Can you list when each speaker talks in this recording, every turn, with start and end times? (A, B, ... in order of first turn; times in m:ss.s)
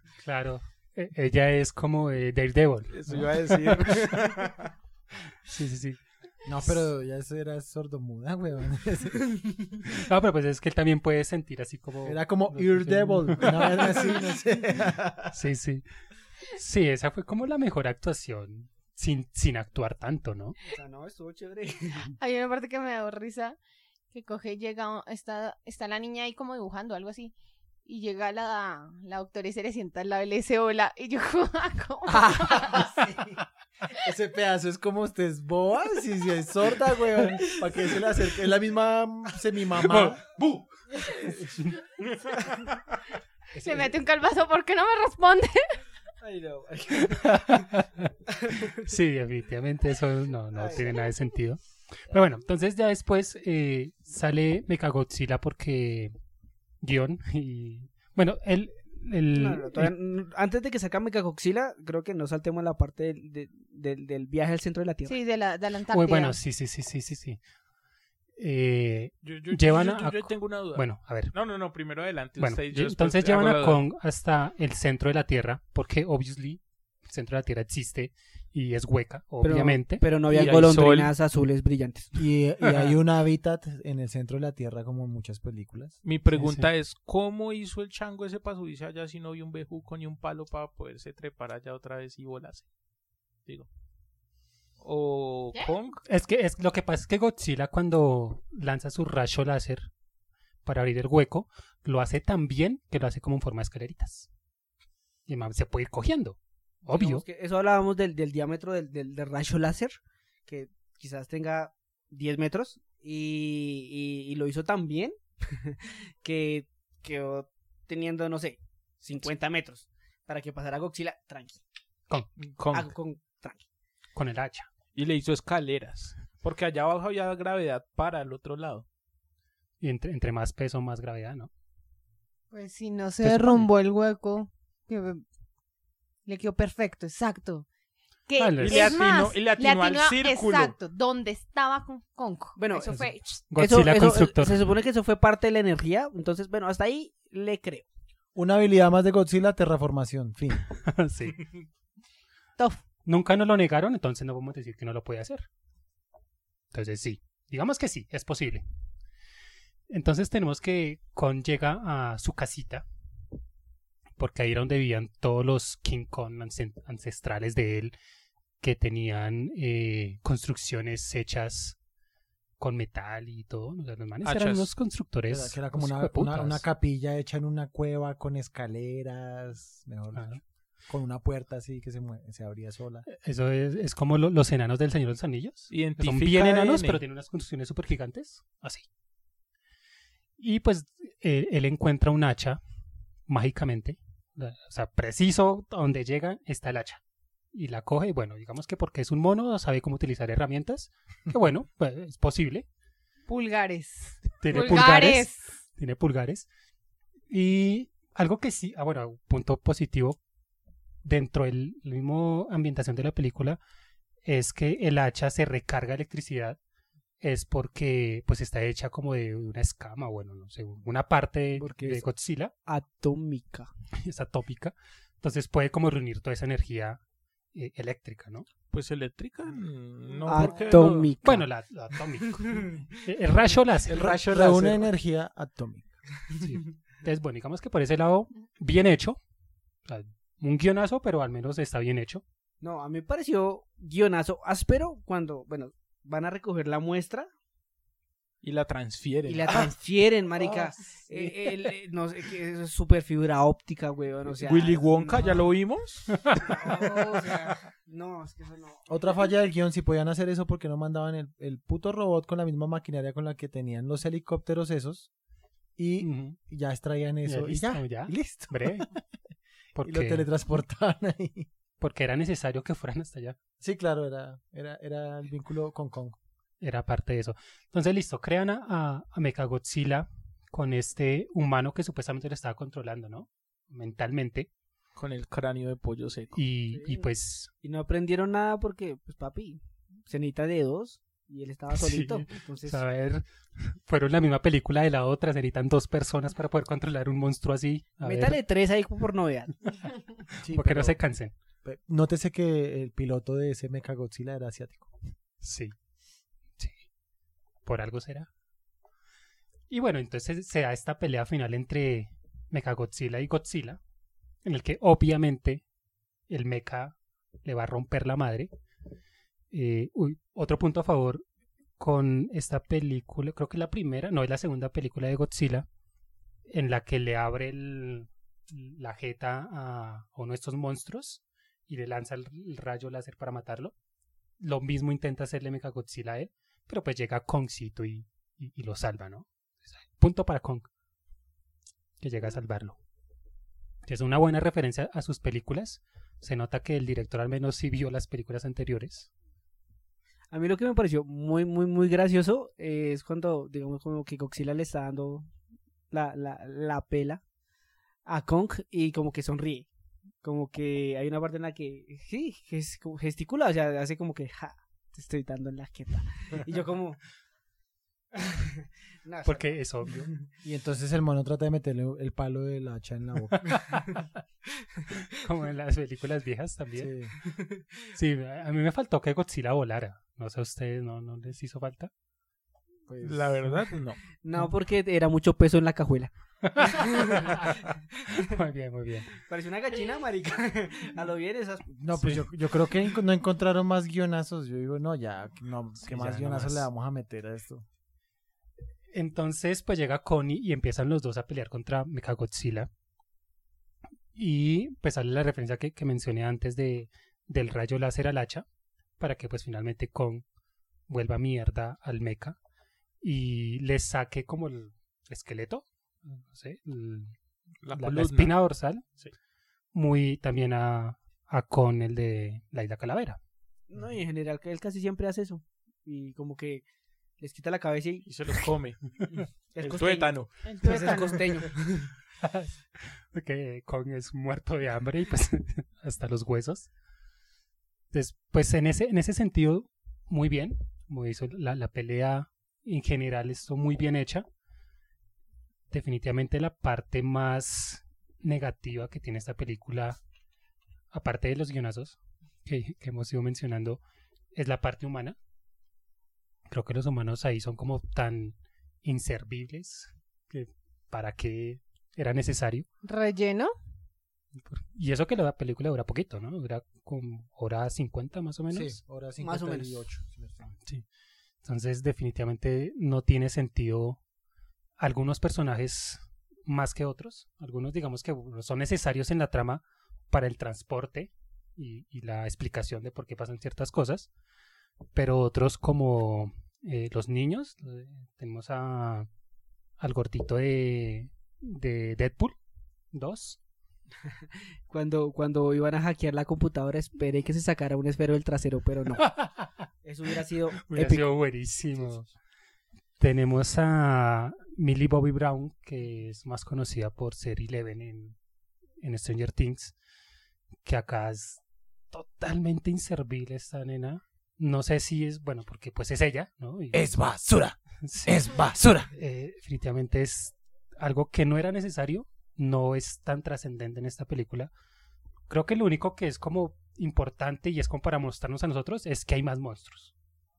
0:00.2-0:04.0 A
0:02.9-0:04.7 B
0:05.5-0:06.0 A
0:06.4-0:09.3 C
0:09.8-0:14.1 A
0:12.0-0:15.4 C
0:15.3-0:15.8 A
0:16.5-0:20.6 A
0:20.6-0:22.1 D
0:22.2-0:23.6 E
0:24.1-0:27.3 E
0:27.8-0:33.0 E
0:32.1-0:40.3 C
0:39.8-0:40.6 A
0:43.6-0:45.8 E
0:43.6-0:43.9 C
0:46.2-0:47.7 D
0:47.1-0:48.1 A
0:48.4-0:48.8 D
0:48.8-0:56.1 A
0:50.6-0:50.9 D
0:56.8-0:59.9 A
0:59.3-1:05.2 D
1:05.1-1:06.4 E
1:05.9-1:07.4 A
1:08.4-1:11.3 A
1:09.2-1:13.8 B
1:12.4-1:20.0 A
1:19.4-1:22.2 D
1:20.3-1:21.1 B
1:22.2-1:26.0 C
1:26.0-1:32.7 B
1:26.3-1:26.7 A
1:34.8-1:36.0 B
1:36.0-1:39.9 A
1:40.6-1:44.3 A
1:45.3-1:47.2 A
1:46.9-2:01.6 D
2:02.4-2:02.9 B
2:02.7-2:03.7 D
2:04.2-2:04.7 A
2:05.0-2:08.8 B
2:09.8-2:11.5 A
2:12.5-2:15.2 E
2:13.2-2:13.7 A
2:16.2-2:17.7 E
2:18.3-2:23.4 E
2:18.4-2:19.0 A
2:18.6-2:20.8 B
2:22.6-2:27.9 D
2:22.9-2:24.6 A
2:28.4-2:30.7 C
2:30.8-2:31.5 A
2:33.0-2:35.5 A
2:36.7-2:38.6 A
2:39.9-2:42.8 A
2:44.2-2:48.0 A
2:48.6-2:51.8 A
2:52.6-2:56.6 A
2:54.2-2:54.7 B
2:55.3-3:00.4 C
3:00.1-3:00.4 A
3:00.9-3:03.1 C
3:03.1-3:08.9 A
3:05.7-3:07.0 B
3:10.4-3:12.6 A
3:13.3-3:17.0 A
3:17.5-3:22.7 A
3:23.3-3:25.4 E
3:24.4-3:26.5 A
3:27.3-3:30.2 A
3:31.0-3:33.6 A
3:34.2-3:36.6 A
3:37.2-3:42.5 A
3:41.6-3:42.0 D
3:42.7-3:43.7 D
3:44.0-3:47.0 A
3:47.5-3:48.5 A
3:48.7-3:51.1 B
3:50.2-3:51.5 D
3:50.7-3:51.0 C
3:51.2-3:54.2 A
3:52.2-3:52.9 D
3:53.9-3:54.8 B
3:53.9-3:55.9 C
3:56.4-3:59.2 A
3:59.8-4:02.2 A
4:02.6-4:07.3 D
4:08.4-4:09.7 B
4:09.3-4:15.4 D
4:10.4-4:11.3 C
4:14.3-4:16.6 B
4:16.3-4:18.9 D
4:18.9-4:25.1 C
4:25.8-4:29.0 C
4:26.0-4:26.4 A
4:27.2-4:28.9 A
4:29.8-4:30.3 A
4:29.8-4:31.5 C
4:31.8-4:33.4 A
4:33.6-4:36.2 C
4:36.6-4:44.5 A
4:45.0-4:46.4 B
4:46.3-4:47.5 A
4:46.7-4:47.1 D
4:47.6-4:52.8 D
4:51.7-4:58.4 A
4:58.0-4:59.7 D
5:00.4-5:01.3 A
5:00.4-5:01.0 C
5:01.6-5:05.0 C
5:05.4-5:05.7 A
5:07.6-5:08.3 A
5:09.7-5:13.8 A
5:14.4-5:15.6 A
5:16.3-5:18.5 A
5:19.5-5:21.2 A
5:21.8-5:25.7 A
5:26.5-5:33.7 A
5:34.4-5:40.7 A
5:42.0-5:42.8 A
5:43.9-5:49.1 A
5:50.3-5:55.3 D
5:55.9-5:57.2 D
5:58.1-5:59.7 D
6:00.2-6:07.0 D
6:08.1-6:10.2 D
6:09.2-6:10.1 A
6:10.4-6:13.6 C
6:13.5-6:14.0 A
6:15.2-6:16.9 A
6:16.8-6:17.1 C
6:17.3-6:17.6 D
6:17.9-6:21.9 A
6:22.9-6:23.7 C
6:23.0-6:24.0 B
6:24.2-6:28.3 D
6:26.4-6:29.1 A
6:29.2-6:31.7 D
6:31.8-6:37.6 C
6:31.9-6:32.2 A
6:35.8-6:36.7 A
6:38.9-6:42.7 A
6:44.1-6:48.4 A
6:49.0-6:50.2 A
6:50.9-6:52.4 A
6:53.0-6:57.1 A
6:57.6-6:58.4 B
6:57.7-6:58.8 A
6:59.7-7:03.2 A
7:03.7-7:06.6 D
7:07.2-7:08.1 D
7:08.1-7:10.6 B
7:09.5-7:11.9 D
7:10.4-7:11.3 E
7:12.2-7:16.7 A
7:17.9-7:24.3 A
7:25.7-7:30.0 A
7:30.9-7:33.8 A
7:34.3-7:35.2 A
7:36.5-7:42.7 A
7:42.8-7:43.5 E
7:44.4-7:48.8 A
7:48.5-7:50.5 C
7:49.2-7:49.9 D
7:51.4-7:54.0 A
7:54.8-8:04.1 A
8:04.9-8:09.1 A
8:09.8-8:12.4 A
8:12.9-8:13.4 A
8:14.7-8:19.1 D
8:19.0-8:19.6 A
8:19.8-8:21.1 D
8:20.6-8:22.1 A
8:23.0-8:28.2 A
8:28.8-8:29.7 A
8:30.6-8:36.9 A
8:36.7-8:38.9 C
8:37.8-8:38.3 A
8:38.9-8:44.5 A
8:45.3-8:49.9 A